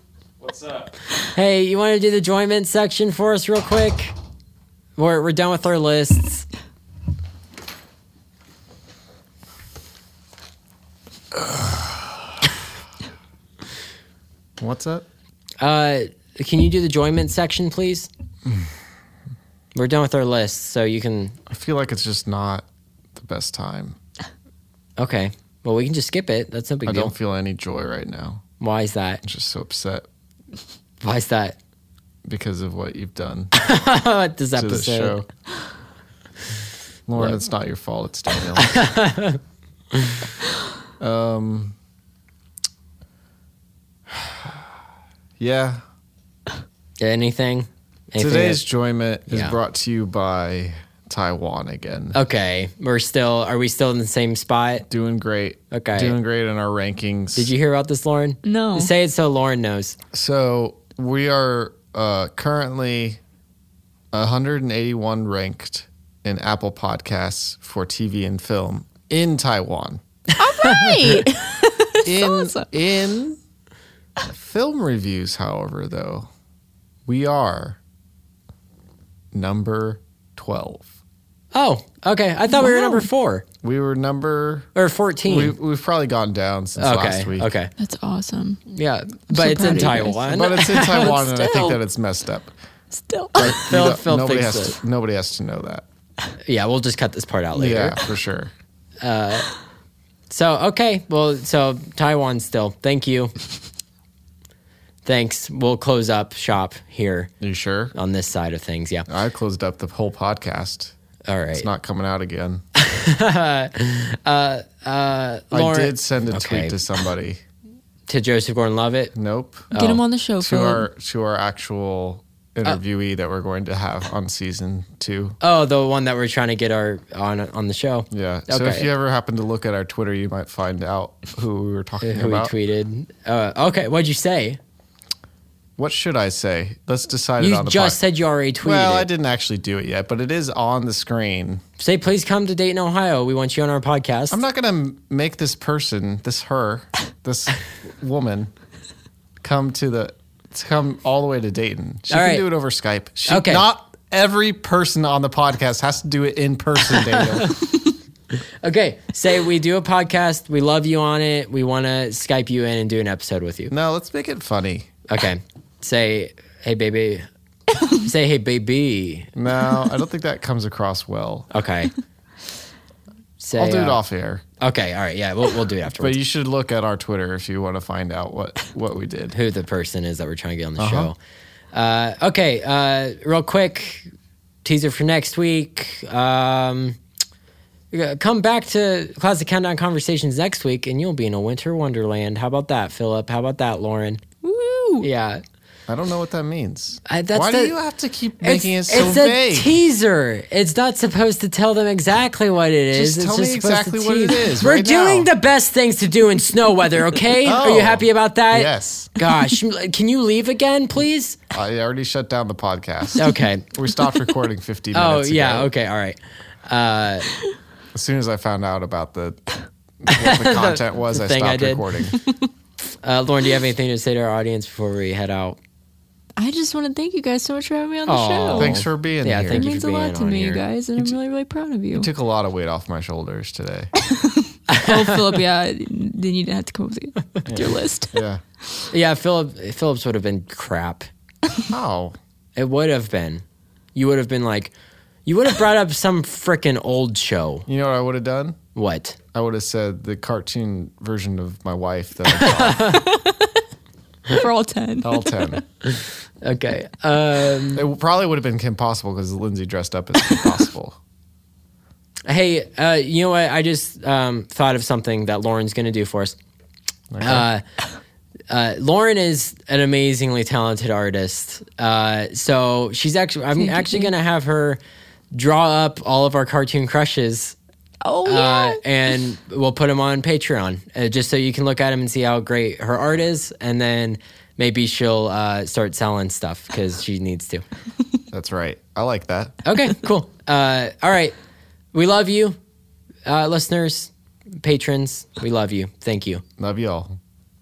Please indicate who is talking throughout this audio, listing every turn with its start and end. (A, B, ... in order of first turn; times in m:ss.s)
0:00.4-0:00.9 A
0:01.2-0:04.1 B
0:05.0-0:06.5 B
0:11.4-0:12.0 A
0:14.6-0:15.0 A
0:15.6-0:18.1 B
0:19.7-0:21.4 B
0:21.5-0:24.0 A
0:25.0-0:27.1 B
0:26.8-0:28.4 A
0:28.6-0:29.2 B
0:29.2-0:30.0 A
0:31.0-0:31.6 B
0:32.2-0:33.5 A
0:33.5-0:35.2 B
0:34.6-0:35.2 A
0:37.1-0:38.8 A
0:38.6-0:39.4 B
0:39.9-0:40.2 B
0:41.0-0:41.7 A
0:44.1-0:44.5 A
0:45.4-0:45.8 A
0:47.0-0:48.6 B
0:48.2-0:52.2 A
0:49.3-0:49.6 B
0:52.1-0:54.8 B
0:54.9-0:57.5 A
0:55.7-0:56.2 B
0:57.4-1:00.0 B
0:58.4-0:58.9 C
1:00.1-1:03.2 A
1:04.1-1:10.0 A
1:10.4-1:12.7 C
1:10.6-1:10.9 B
1:12.0-1:13.4 A
1:14.2-1:16.3 A
1:17.1-1:17.8 A
1:19.3-1:20.9 A
1:21.5-1:23.4 B
1:22.5-1:23.1 C
1:23.6-1:24.7 A
1:24.7-1:25.5 B
1:25.2-1:27.5 A
1:26.8-1:27.7 B
1:27.8-1:28.6 C
1:28.7-1:31.2 B
1:29.3-1:31.8 C
1:30.3-1:32.5 A
1:32.9-1:33.6 C
1:33.4-1:35.8 A
1:33.4-1:34.8 B
1:36.4-1:38.0 B
1:37.5-1:38.5 A
1:39.0-1:39.5 B
1:40.3-1:43.3 B
1:45.0-1:47.3 B
1:47.4-1:47.9 A
1:47.9-1:49.0 B
1:49.1-1:50.9 A
1:51.3-1:51.7 B
1:51.5-1:52.6 A
1:52.7-1:56.8 B
1:55.5-1:57.4 A
1:58.1-1:59.1 B
1:59.1-1:59.7 A
1:59.7-2:00.0 B
1:59.7-2:00.8 C
2:00.4-2:05.4 A
2:05.4-2:08.9 B
2:08.1-2:12.5 A
2:12.0-2:14.6 B
2:15.8-2:18.0 A
2:17.4-2:19.1 B
2:18.6-2:21.6 A
2:21.8-2:24.4 B
2:24.3-2:28.5 A
2:29.4-2:37.5 A
2:32.1-2:32.5 B
2:33.2-2:33.6 B
2:36.9-2:37.8 B
2:38.3-2:43.7 B
2:43.7-2:44.9 A
2:45.1-2:47.2 B
2:47.9-2:49.3 B
2:49.4-2:51.5 A
2:51.5-2:51.9 B
2:53.4-2:54.0 B
2:53.6-2:54.4 A
2:54.6-2:56.2 B
2:56.0-2:59.4 A
2:59.3-3:01.2 B
3:00.8-3:01.1 A
3:01.7-3:04.1 B
3:04.6-3:07.0 B
3:07.9-3:14.2 B
3:14.4-3:15.1 C
3:15.0-3:15.4 B
3:15.9-3:19.8 A
3:17.1-3:17.7 B
3:18.4-3:31.4 B
3:22.9-3:25.3 A
3:27.4-3:29.2 A
3:31.5-3:35.7 A
3:33.2-3:33.8 B
3:34.9-3:37.3 B
3:37.9-3:42.2 A
3:40.1-3:42.0 B
3:43.0-3:45.6 B
3:46.4-3:48.8 C
3:48.1-3:50.6 B
3:48.5-3:49.7 A
3:49.5-3:52.1 C
3:51.9-3:53.9 A
3:54.0-3:58.1 C
3:54.7-3:55.3 B
3:57.5-3:58.4 A
3:58.9-4:01.1 B
4:01.7-4:02.2 A
4:02.6-4:03.4 B
4:03.9-4:04.7 B
4:05.2-4:07.6 B
4:07.7-4:08.6 A
4:08.7-4:09.2 B
4:09.3-4:13.0 A
4:12.4-4:13.0 B
4:12.9-4:13.6 C
4:14.3-4:15.3 C
4:15.0-4:15.6 A
4:15.8-4:17.8 B
4:17.7-4:21.0 A
4:22.2-4:26.4 B
4:27.1-4:27.4 A
4:27.2-4:27.6 B
4:28.5-4:34.8 B
4:33.6-4:34.1 C
4:35.3-4:37.6 B
4:38.0-4:38.8 C
4:38.2-4:47.6 B
4:48.3-4:49.6 A
4:49.6-4:51.3 B
4:51.9-4:52.6 B
4:53.2-4:56.4 B
4:56.6-4:57.2 A